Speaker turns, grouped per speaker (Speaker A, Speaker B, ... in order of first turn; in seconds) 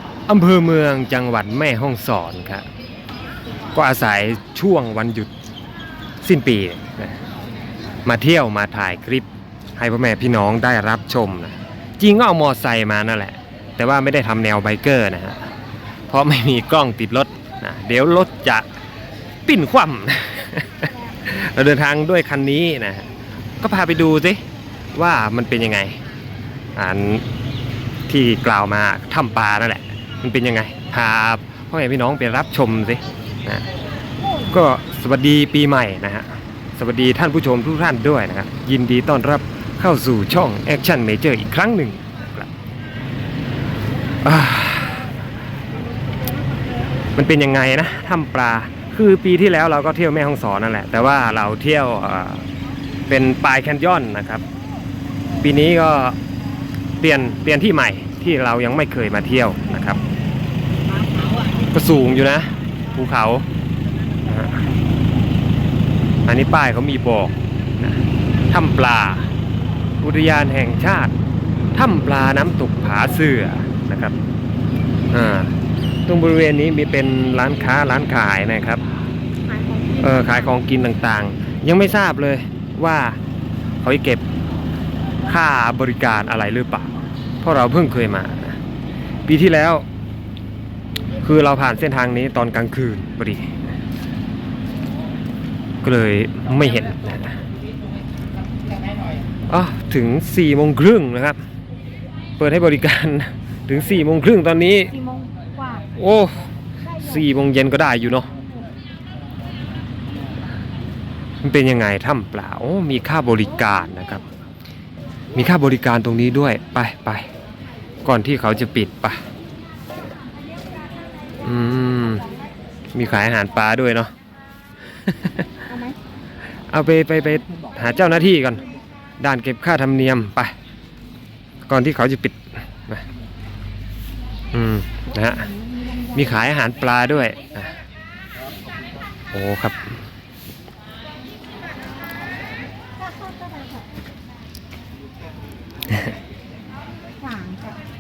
Speaker A: 0.3-2.7, 3.7-5.3, 6.2-7.2, 8.1-15.5, 16.1-18.7, 19.5-23.1, 23.6-24.4, 24.9-26.0, 26.8-27.3, 28.1-33.7, 34.5-42.5, 44.2-45.1, 47.1-52.5, 53.1-54.4, 55.4-56.2, 57.0-60.0, 61.7-63.5, 64.3-64.6, 66.3-69.3, 70.0-71.1, 71.7-74.2, 75.1-75.5, 76.1-78.8, 80.0-83.2, 83.8-84.2, 85.3-88.6, 89.3-89.9, 91.2-93.6, 95.8-97.4, 99.5-101.4, 102.4-104.9, 106.0-106.3, 107.0-108.3, 111.4-114.2, 115.3-117.3, 118.0-119.2, 121.4-122.3, 122.9-124.1, 125.0-125.6, 126.7-128.6, 129.2-130.5, 131.7-133.1, 134.5-135.5, 136.1-137.7, 139.3-140.0
Speaker B: 34.2-34.5, 79.5-80.5, 104.9-105.9, 106.9-107.2, 125.7-126.0, 135.1-136.4, 143.0-143.9, 147.2-147.8